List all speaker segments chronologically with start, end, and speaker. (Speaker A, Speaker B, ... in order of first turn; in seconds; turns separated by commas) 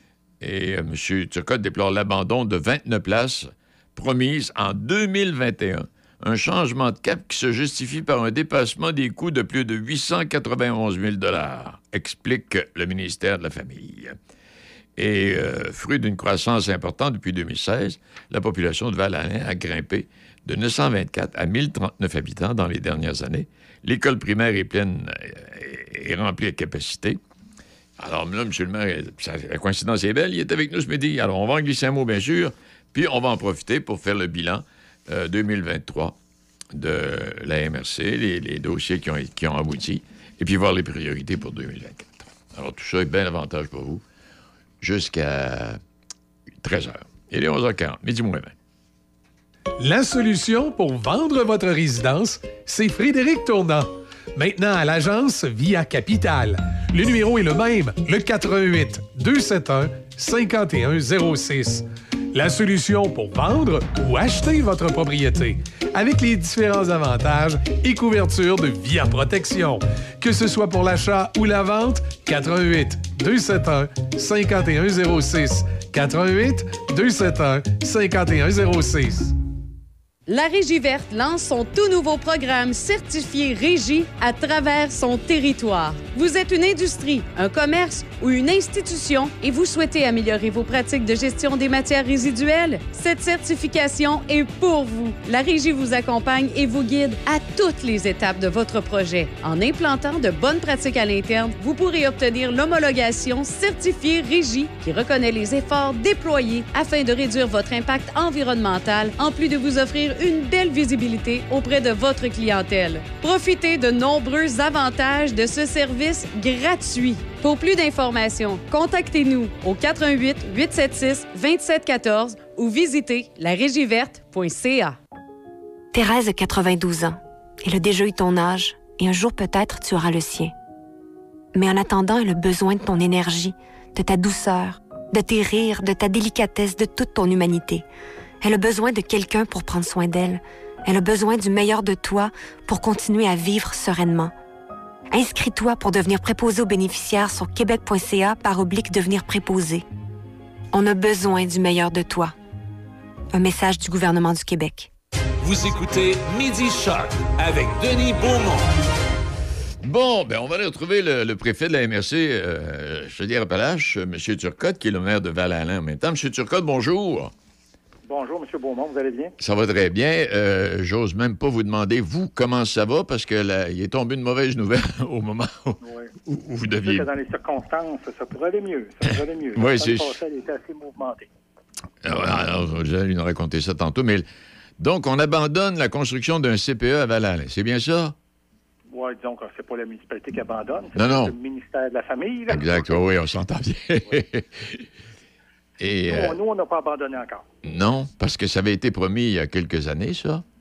Speaker A: 0.4-14.2, Speaker A: 15.0-27.2, Speaker A: 28.0-36.2, Speaker A: 36.7-44.0, Speaker A: 44.8-45.8, Speaker A: 46.6-48.5, Speaker B: 49.8-79.3, Speaker C: 80.3-125.0, Speaker D: 125.9-130.5, Speaker D: 131.5-137.8, Speaker D: 138.4-144.3, Speaker D: 145.1-149.8, Speaker D: 150.7-152.3, Speaker D: 153.3-154.9, Speaker E: 155.4-158.7, Speaker A: 159.8-167.3, Speaker F: 168.1-169.3, Speaker A: 169.4-177.1, Speaker F: 175.8-176.1, Speaker F: 176.8-181.3, Speaker A: 179.6-180.2, Speaker A: 182.0-184.2, Speaker F: 182.1-182.4, Speaker A: 184.8-188.2, Speaker F: 188.9-193.0, Speaker A: 190.9-191.3, Speaker A: 192.5-194.8, Speaker A: 195.8-196.4, Speaker F: 196.1-197.4, Speaker A: 197.6-200.4